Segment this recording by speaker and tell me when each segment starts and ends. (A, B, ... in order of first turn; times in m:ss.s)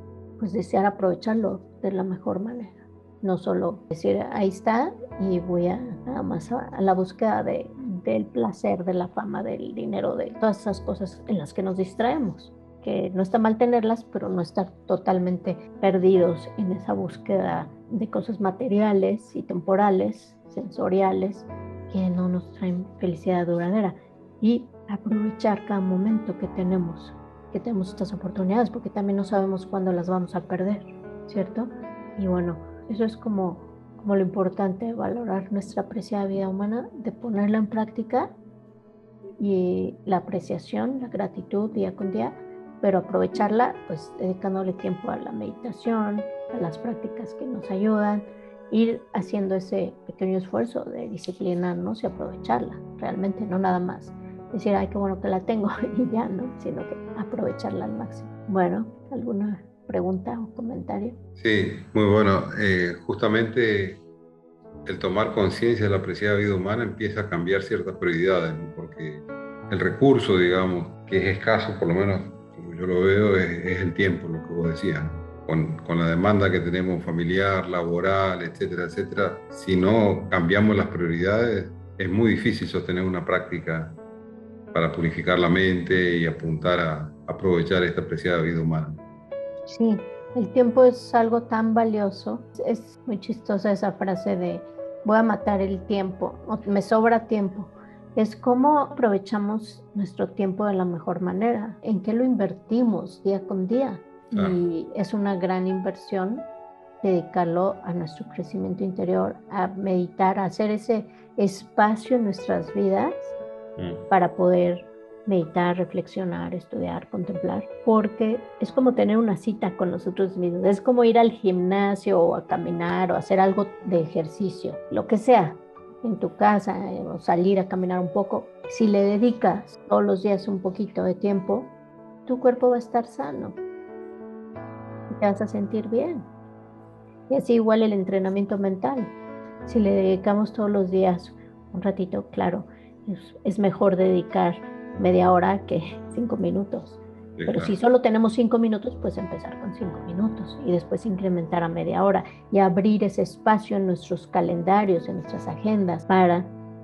0:00.4-0:38.4 A
0:39.4-1:01.2 A
1:01.4-1:04.0 B
1:04.8-1:24.0 B
1:24.7-1:29.0 B
1:29.7-1:46.5 A
1:44.3-1:44.6 B
1:47.0-1:53.4 A
1:53.8-1:54.1 B
1:54.1-2:11.7 A
2:12.2-2:13.6 A
2:15.1-2:16.3 A
2:17.3-2:19.1 A
2:19.6-2:36.5 A
2:27.4-2:27.8 B